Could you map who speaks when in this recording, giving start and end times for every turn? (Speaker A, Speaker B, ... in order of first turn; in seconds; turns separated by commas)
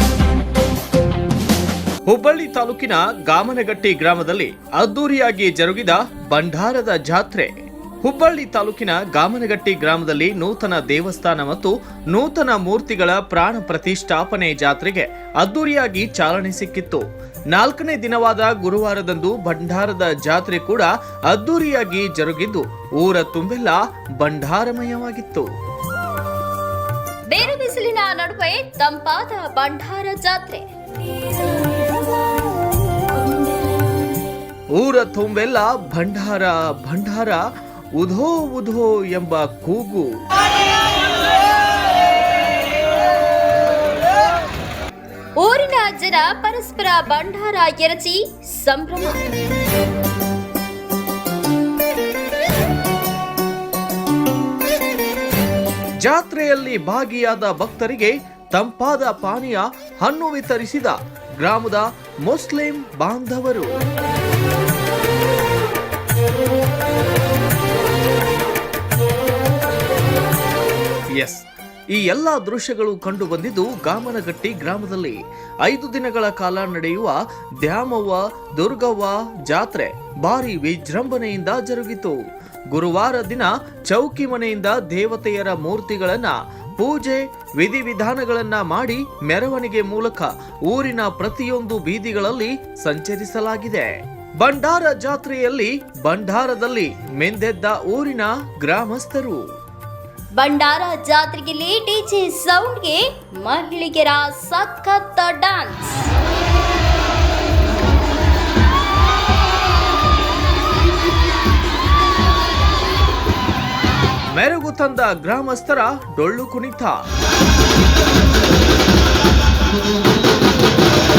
Speaker A: 2.0-25.5, Speaker B: 27.3-30.6, Speaker A: 34.7-37.4, Speaker A: 38.0-40.1, Speaker B: 45.4-49.2, Speaker A: 56.0-63.8, Speaker A: 71.2-82.2, Speaker A: 82.7-99.4, Speaker B: 100.3-106.1, Speaker A: 114.3-117.0